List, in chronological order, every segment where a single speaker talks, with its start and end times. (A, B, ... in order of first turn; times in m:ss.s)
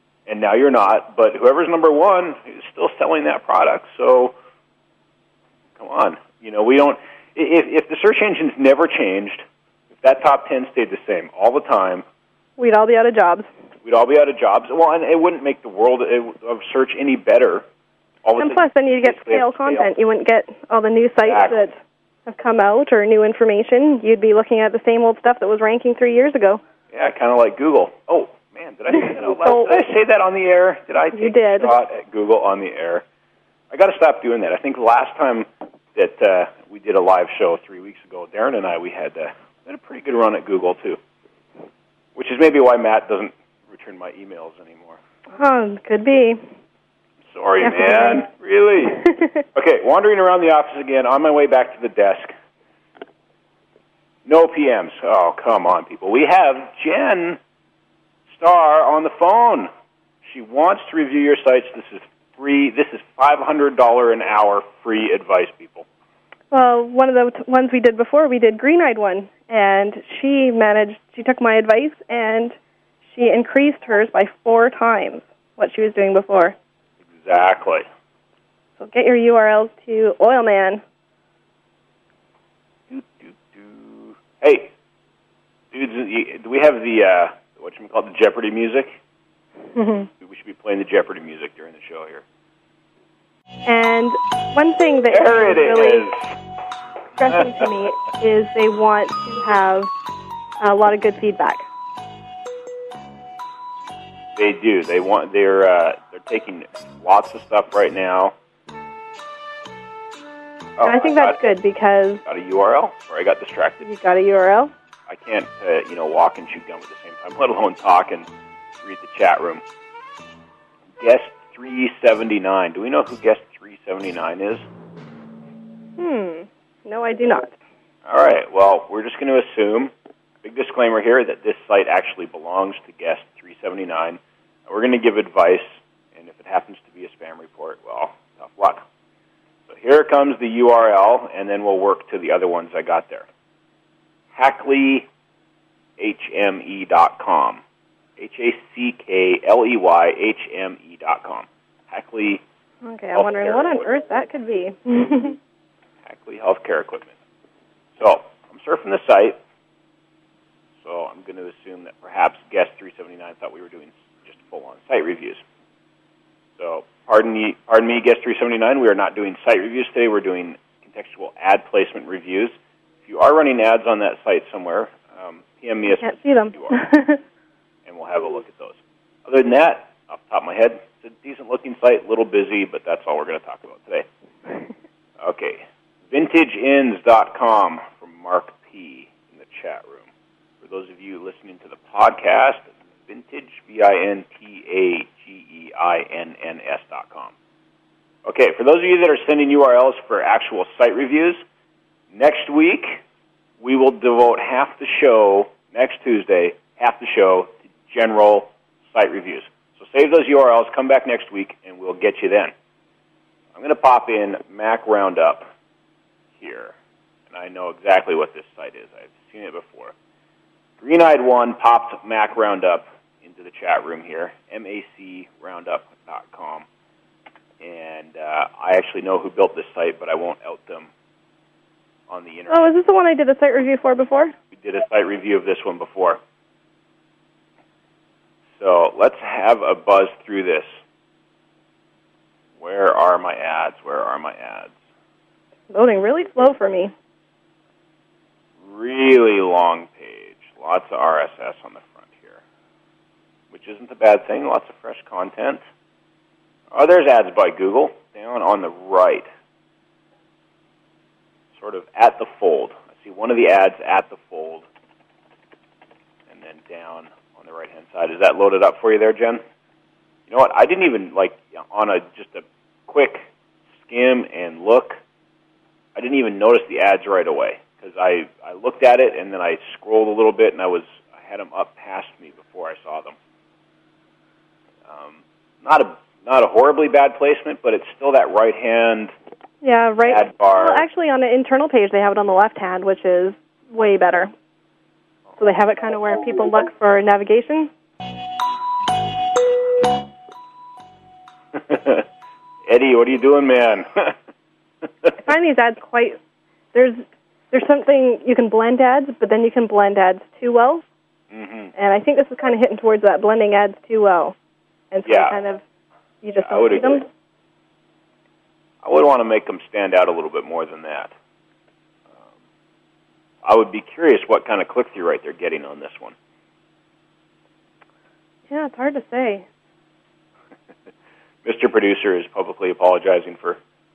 0:00.3-0:04.4 A
0:05.8-0:12.0 A
0:12.6-0:13.5 B
0:13.8-0:17.7 A
0:18.2-0:19.9 A
0:18.4-0:21.8 B
0:21.2-0:21.7 A
0:22.3-0:26.6 B
0:26.9-0:33.0 A
0:29.0-0:29.7 B
0:31.1-0:31.7 B
0:33.7-0:41.0 A
0:42.2-0:45.0 A
0:45.4-0:46.4 B
0:47.3-0:49.0 A
0:47.6-0:48.2 B
0:49.1-0:49.4 B
0:49.5-0:52.3 A
0:54.2-0:57.4 A
0:58.3-0:59.7 A
1:00.2-1:05.9 A
1:06.5-1:12.6 B
1:13.1-1:16.6 B
1:17.1-1:17.9 A
1:18.8-1:20.8 B
1:22.9-1:24.7 A
1:25.7-1:29.0 A
1:29.8-1:30.1 B
1:30.2-1:32.2 A
1:33.7-1:36.1 B
1:35.1-1:36.4 A
1:37.2-1:39.9 B
1:37.3-1:37.6 A
1:40.6-1:41.7 B
1:44.4-1:48.3 A
1:50.8-1:51.4 A
1:50.8-1:52.2 B
1:52.3-1:53.8 A
1:53.8-1:54.7 B
1:55.1-1:58.3 A
1:58.8-1:59.6 A
2:01.0-2:04.7 A
2:06.0-2:07.6 B
2:08.0-2:09.9 A
2:10.4-2:18.9 A
2:19.7-2:23.3 A
2:24.3-2:25.1 A
2:26.0-2:27.6 A
2:28.2-2:32.4 A
2:32.8-2:35.4 B
2:33.1-2:33.8 A
2:36.0-2:37.1 A
2:38.0-2:39.4 A
2:40.8-2:45.4 A
2:46.6-2:56.8 A
2:56.0-2:57.2 B
2:57.9-3:04.1 A
3:05.2-3:10.1 A
3:10.6-3:17.3 A
3:18.3-3:21.4 A
3:22.1-3:23.0 A
3:23.6-3:32.5 A
3:33.5-3:35.5 A
3:36.4-3:36.7 A
3:37.3-3:40.0 A
3:40.8-3:46.7 A
3:47.6-3:50.9 A
3:52.1-3:52.7 A
3:52.5-3:54.3 B
3:54.5-3:56.2 A
3:58.6-4:00.8 A
4:02.6-4:04.7 A
4:05.7-4:06.9 B
4:08.6-4:12.4 A
4:13.5-4:15.6 A
4:16.7-4:19.3 A
4:21.6-4:24.6 A
4:26.3-4:29.4 A
4:30.3-4:33.3 A
4:33.8-4:35.0 A
4:36.0-4:43.2 A
4:44.8-4:49.1 A
4:49.6-4:54.3 B
4:50.1-4:50.9 A
4:55.4-4:57.7 B
5:01.5-5:02.1 A
5:02.7-5:04.2 A
5:05.2-5:06.2 B
5:06.7-5:10.8 B
5:11.3-5:11.7 A
5:11.8-5:14.4 B
5:14.9-5:15.6 B
5:15.0-5:15.4 A
5:16.2-5:17.1 B
5:16.4-5:17.1 A
5:18.8-5:21.1 A
5:23.4-5:26.2 A
5:28.5-5:29.5 B
5:31.4-5:33.6 A